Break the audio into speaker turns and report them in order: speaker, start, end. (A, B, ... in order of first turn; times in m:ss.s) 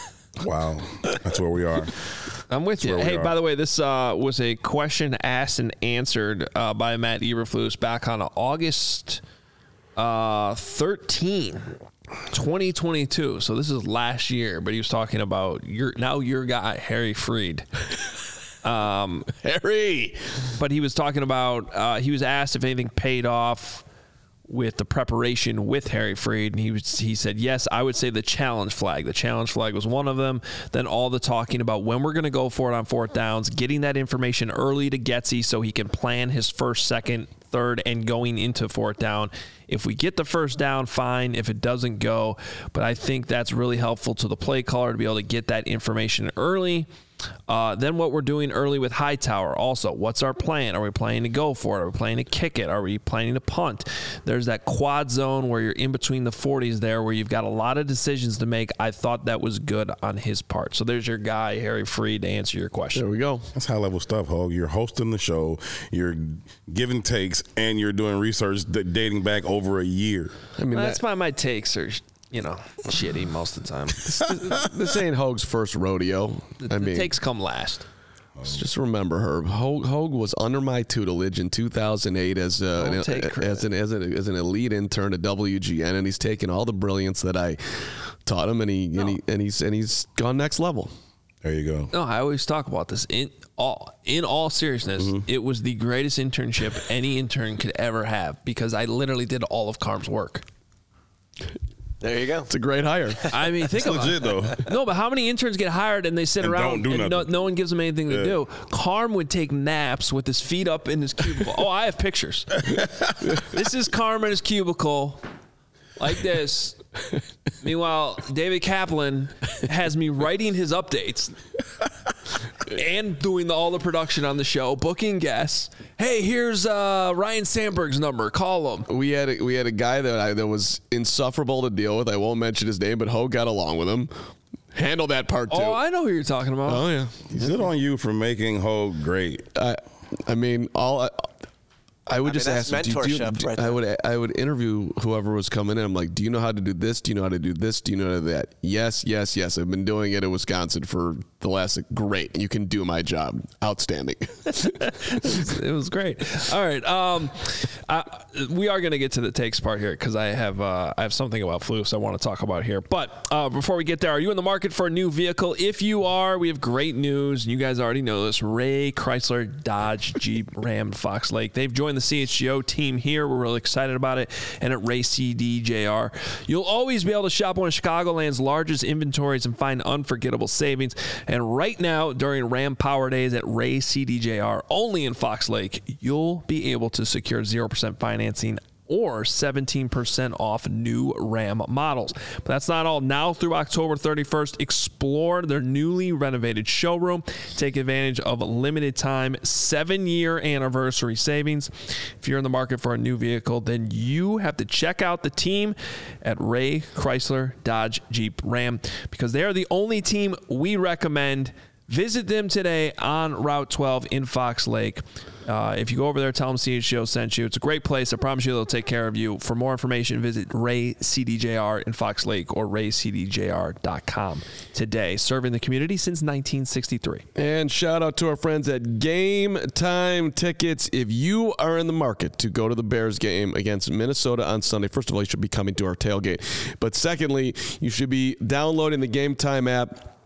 0:00.4-0:02.0 A
0:02.5-0:09.2 B
0:02.8-0:03.3 A
0:10.0-0:11.7 B
0:12.3-0:17.8 B
0:18.6-0:19.3 B
0:19.3-0:20.5 C
0:20.5-0:23.8 B
0:24.5-0:46.9 B
0:47.5-1:03.0 B
1:02.9-1:03.5 C
1:03.5-1:10.3 A
1:10.6-1:11.0 C
1:10.7-1:14.2 B
1:14.0-1:17.1 C
1:14.2-1:14.7 A
1:16.6-1:17.9 B
1:18.4-1:30.9 C
1:22.8-1:23.6 B
1:31.4-1:31.9 A
1:31.9-1:40.4 B
1:35.0-1:35.2 A
1:42.0-1:42.5 D
1:42.5-1:43.5 C
1:43.3-1:52.7 B
1:43.7-1:44.6 A
1:46.4-1:47.3 A
1:48.1-1:48.4 A
1:52.6-1:53.3 A
1:53.3-1:55.2 B
1:56.0-1:56.8 B
1:57.6-2:01.4 B
2:02.6-2:08.9 B
2:08.9-2:14.1 C
2:14.7-2:15.8 C
2:15.5-2:16.8 B
2:16.6-2:17.5 C
2:17.3-2:19.5 A
2:19.5-2:21.3 C
2:22.1-2:35.4 C
2:22.2-2:23.8 D
2:34.5-3:47.2 B
3:47.4-4:00.1 C